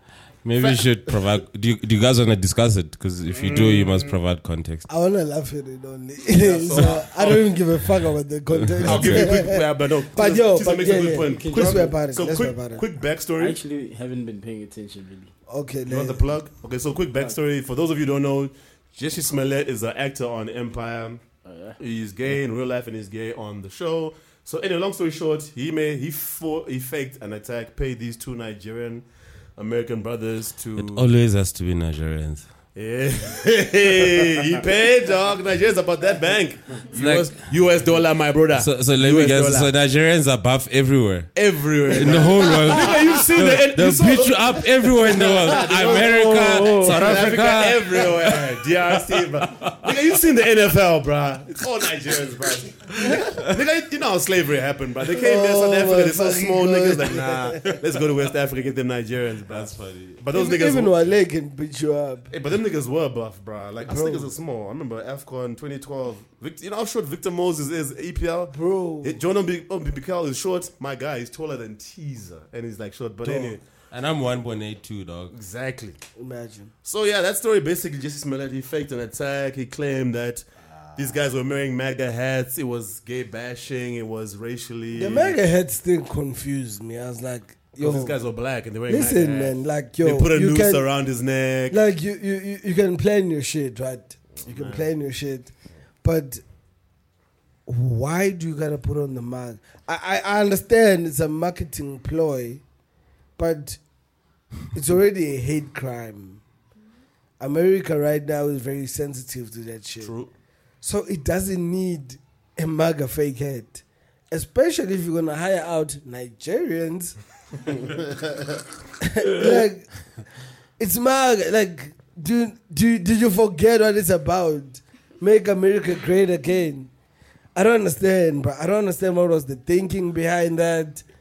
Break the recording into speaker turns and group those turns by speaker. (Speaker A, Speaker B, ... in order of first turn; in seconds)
Speaker A: 0.4-4.9, 8.5-9.4, 30.8-32.5, 36.9-37.4, 38.5-50.1, 53.1-53.5, 59.5-60.2, 73.9-75.3
Speaker B: 0.6-1.1, 3.4-4.0, 6.3-7.4, 8.8-13.6, 15.9-21.2, 21.8-29.0, 29.6-31.1, 32.7-39.7, 41.3-61.1, 62.3-73.6, 75.3-76.0, 76.8-80.4, 81.0-85.4, 87.8-91.8, 94.4-94.8, 110.0-110.3
Speaker C: 4.9-12.8, 15.5-16.2, 55.1-57.8, 60.3-62.3, 63.8-64.3, 68.5-69.2, 73.2-73.6, 76.2-76.7, 84.9-88.2, 88.9-90.8, 91.7-95.5, 96.0-96.4, 97.7-102.6, 103.4-103.8, 104.7-106.4, 107.4-110.1, 110.8-117.1, 119.0-119.9, 120.8-126.9, 127.5-131.0
Speaker D: 11.2-11.9, 13.4-15.3, 21.4-21.8, 45.7-47.3